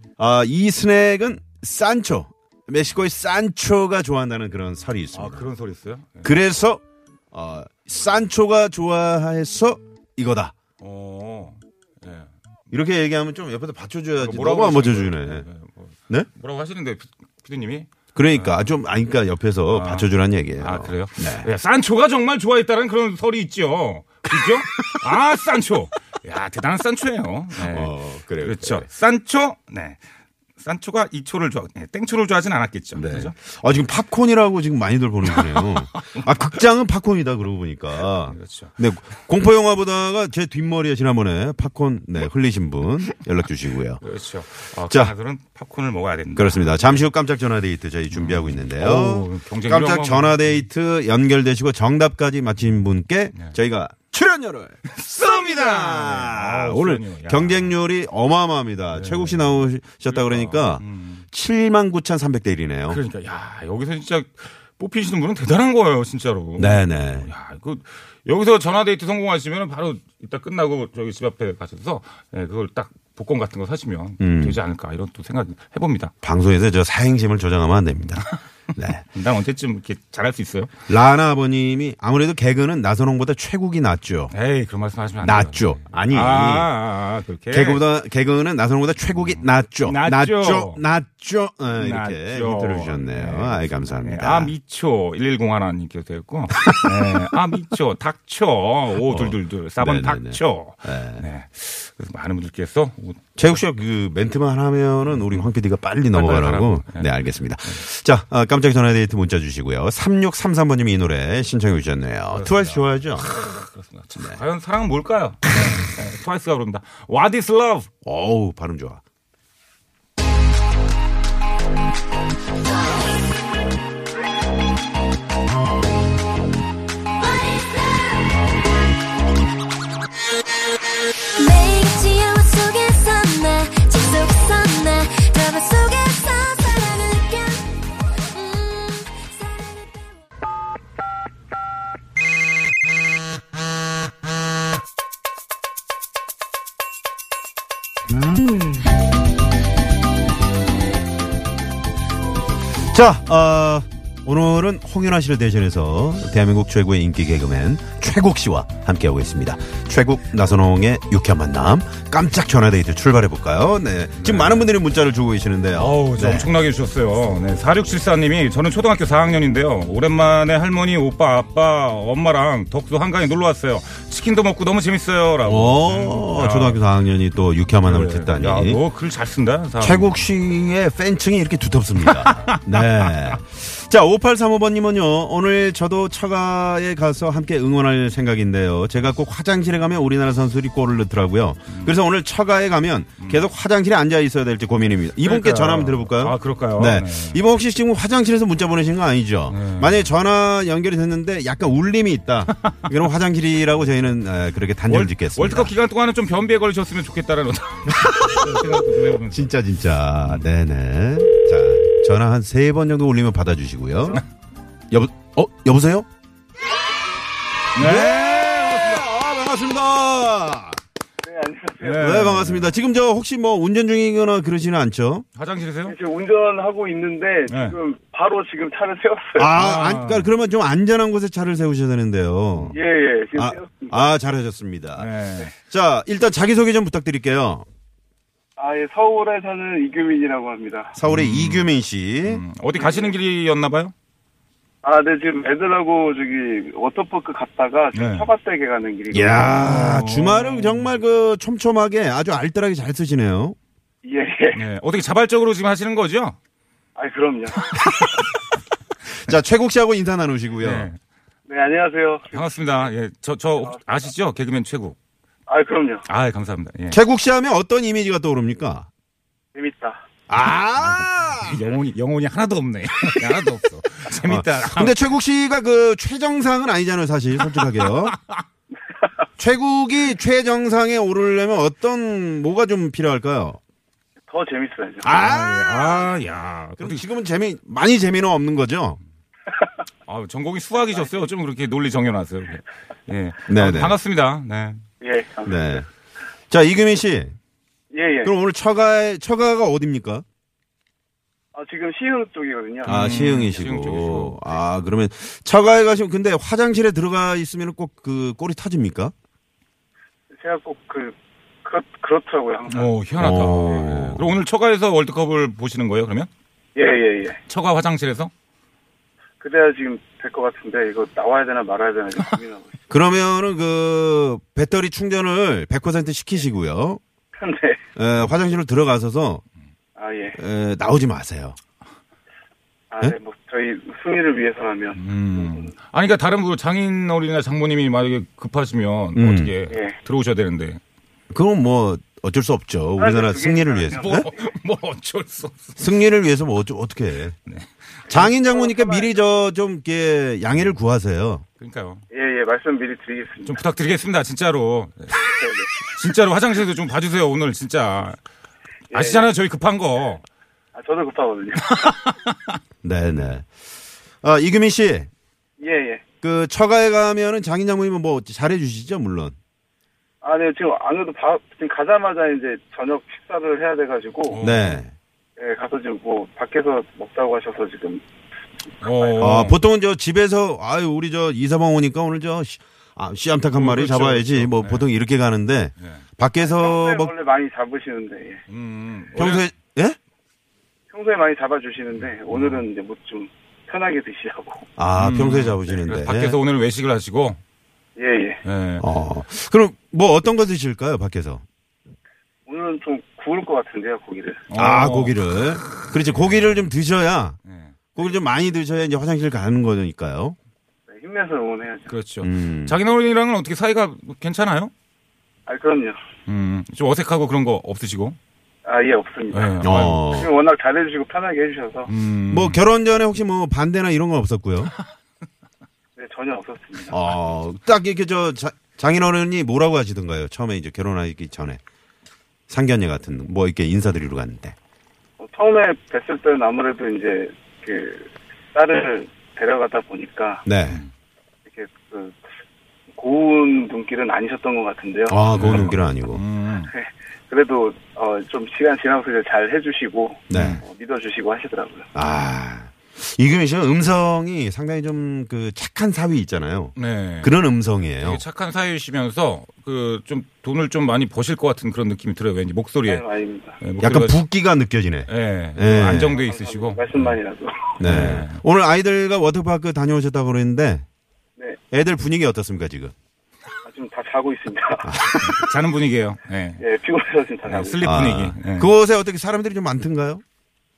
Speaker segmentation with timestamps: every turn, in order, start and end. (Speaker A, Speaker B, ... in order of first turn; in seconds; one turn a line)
Speaker A: 0.2-5.5
Speaker B: 5.1-6.3
Speaker A: 6.2-6.8
Speaker A: 7.3-10.5
Speaker B: 10.8-12.3
Speaker A: 12.7-15.4
Speaker B: 14.2-18.6
Speaker A: 18.1-21.5
Speaker B: 19.7-30.0
Speaker A: 24.3-24.9
Speaker A: 27.6-28.9
Speaker B: 30.6-33.3
Speaker A: 32.9-44.0
Speaker B: 38.1-38.8
Speaker B: 44.0-47.1
Speaker A: 44.9-45.1
Speaker A: 46.3-63.0
Speaker B: 48.1-50.6
Speaker B: 54.9-57.8
Speaker B: 58.9-61.2
Speaker B: 62.9-76.1
Speaker A: 66.6-67.3
Speaker A: 74.2-74.6
Speaker A: 76.2-79.0
Speaker B: 79.1-80.7
Speaker A: 80.9-84.3
Speaker B: 84.3-87.8
Speaker A: 85.2-86.7
Speaker A: 87.5-94.5
Speaker B: 89.8-90.8
Speaker B: 91.7-103.2
Speaker A: 99.0-101.2
Speaker A: 103.4-113.3
Speaker B: 105.2-105.5
Speaker B: 106.1-107.1
Speaker B: 112.3-117.9
Speaker A: 118.0-119.0
Speaker C: 127.2-128.4
Speaker C: 131.3-140.0
Speaker A: 152.9-166.5
Speaker B: 164.2-164.7
Speaker B: 165.7-176.8
Speaker A: 175.4-178.8
Speaker B: 177.8-180.1
Speaker A: 179.8-205.7
Speaker B: 182.0-183.3
Speaker B: 191.7-191.9
Speaker B: 193.2-193.5
Speaker B: 195.2-197.4
Speaker B: 199.5-200.1
Speaker B: 204.9-209.5
Speaker A: 207.9-214.2
Speaker A: 214.9-216.1
Speaker B: 217.7-218.3
Speaker A: 217.8-220.8
Speaker D: 221.2-222.1
Speaker B: 221.8-222.7
Speaker A: 222.0-225.2
Speaker B: 225.3-225.9
Speaker D: 225.8-229.5
Speaker B: 227.5-227.8
Speaker A: 229.3-232.8
Speaker B: 229.5-230.3
Speaker D: 232.7-234.0
Speaker A: 233.3-235.1
Speaker B: 234.9-235.5
Speaker A: 235.7-237.6
Speaker D: 238.6-241.0
Speaker A: 240.9-242.4
Speaker B: 241.0-241.7
Speaker B: 242.2-243.9
Speaker D: 242.7-243.1
Speaker D: 244.8-249.6
Speaker B: 247.9-248.3
Speaker A: 249.1-253.6
Speaker B: 249.5-250.9
Speaker D: 254.0-254.6
Speaker B: 254.5-256.4
Speaker D: 256.9-258.0
Speaker A: 259.1-260.9
Speaker B: 260.6-261.0
Speaker D: 261.5-262.4
Speaker B: 262.3-265.0
Speaker D: 265.5-266.1
Speaker B: 266.1-267.0
Speaker A: 266.9-268.9
Speaker D: 269.5-270.0
Speaker A: 270.3-271.6
Speaker B: 270.8-274.9
Speaker A: 274.2-278.1
Speaker B: 277.4-278.4
Speaker A: 279.4-283.6
Speaker D: 284.3-285.2
Speaker A: 285.0-286.1
Speaker B: 285.2-287.0
Speaker A: 286.8-289.0
Speaker B: 290.1-294.8
Speaker A: 293.5-294.0
Speaker D: 295.0-295.8
Speaker A: 295.4-295.9
Speaker A: 296.5-297.3
Speaker D: 297.9-298.3
Speaker A: 298.2-300.2
Speaker D: 301.5-303.3
Speaker B: 302.8-304.4
Speaker A: 302.9-309.1
Speaker D: 310.4-312.9
Speaker B: 312.7-316.3
Speaker A: 313.2-314.3
Speaker D: 316.7-317.4
Speaker B: 317.5-318.3
Speaker D: 319.4-322.8
Speaker A: 322.9-327.0
Speaker D: 327.4-327.8
Speaker A: 327.9-329.4
Speaker D: 329.9-330.4
Speaker A: 330.4-331.6
Speaker D: 332.9-335.7
Speaker B: 334.9-340.8
Speaker A: 339.1-339.6
Speaker D: 339.7-340.0
Speaker A: 341.3-344.3
Speaker D: 343.0-344.5
Speaker B: 343.9-345.8
Speaker A: 345.8-347.4
Speaker A: 348.1-351.4
Speaker D: 348.1-349.1
Speaker B: 351.6-352.0
Speaker D: 352.1-353.6
Speaker B: 353.4-355.3
Speaker D: 355.2-355.7
Speaker B: 355.9-358.2
Speaker B: 358.9-360.2
Speaker D: 358.9-359.3
Speaker D: 360.7-362.0
Speaker B: 361.8-362.5
Speaker A: 362.8-363.5
Speaker A: 364.2-365.1
Speaker D: 365.6-366.0
Speaker A: 366.2-369.4
Speaker D: 370.2-374.4
Speaker B: 374.3-374.8
Speaker A: 374.4-374.9
Speaker D: 375.4-378.0
Speaker B: 378.8-379.6
Speaker D: 379.0-379.3
Speaker A: 379.2-387.1
Speaker B: 383.5-384.9
Speaker D: 386.4-388.4
Speaker B: 388.5-389.4
Speaker A: 389.2-390.0
Speaker D: 390.9-394.7
Speaker B: 392.3-392.6
Speaker A: 394.8-396.4
Speaker B: 395.0-397.4
Speaker D: 397.9-398.4
Speaker B: 398.4-398.9
Speaker A: 398.8-401.4
Speaker D: 402.4-404.4
Speaker B: 404.5-405.1
Speaker A: 404.6-407.4
Speaker B: 405.9-406.6
Speaker B: 407.5-407.8
Speaker A: 407.9-410.4
Speaker D: 410.9-411.9
Speaker B: 411.9-414.7
Speaker A: 412.2-412.8
Speaker D: 415.4-416.0
Speaker B: 416.3-418.2
Speaker D: 418.6-421.9
Speaker B: 419.3-420.1
Speaker A: 419.6-420.3
Speaker B: 421.9-422.6
Speaker A: 422.3-424.7
Speaker D: 425.9-427.0
Speaker A: 426.9-431.6
Speaker A: 432.5-434.6
Speaker D: 435.2-440.5
Speaker A: 440.4-440.8
Speaker D: 441.5-442.2
Speaker D: 442.9-445.2
Speaker A: 445.1-446.2
Speaker B: 445.3-446.7
Speaker D: 446.7-451.9
Speaker A: 450.3-450.6
Speaker B: 450.3-450.6
Speaker A: 451.9-458.2
Speaker B: 456.8-457.3
Speaker B: 458.0-463.1
Speaker D: 462.8-463.6
Speaker B: 463.6-464.2
Speaker A: 463.8-466.2
Speaker B: 465.1-467.1
Speaker D: 466.0-467.8
Speaker A: 467.8-470.8
Speaker B: 467.8-468.4
Speaker A: 471.7-472.9
Speaker D: 473.6-475.0
Speaker A: 474.8-475.6
Speaker B: 475.2-476.6
Speaker D: 476.6-477.9
Speaker B: 477.4-478.7
Speaker A: 477.8-480.2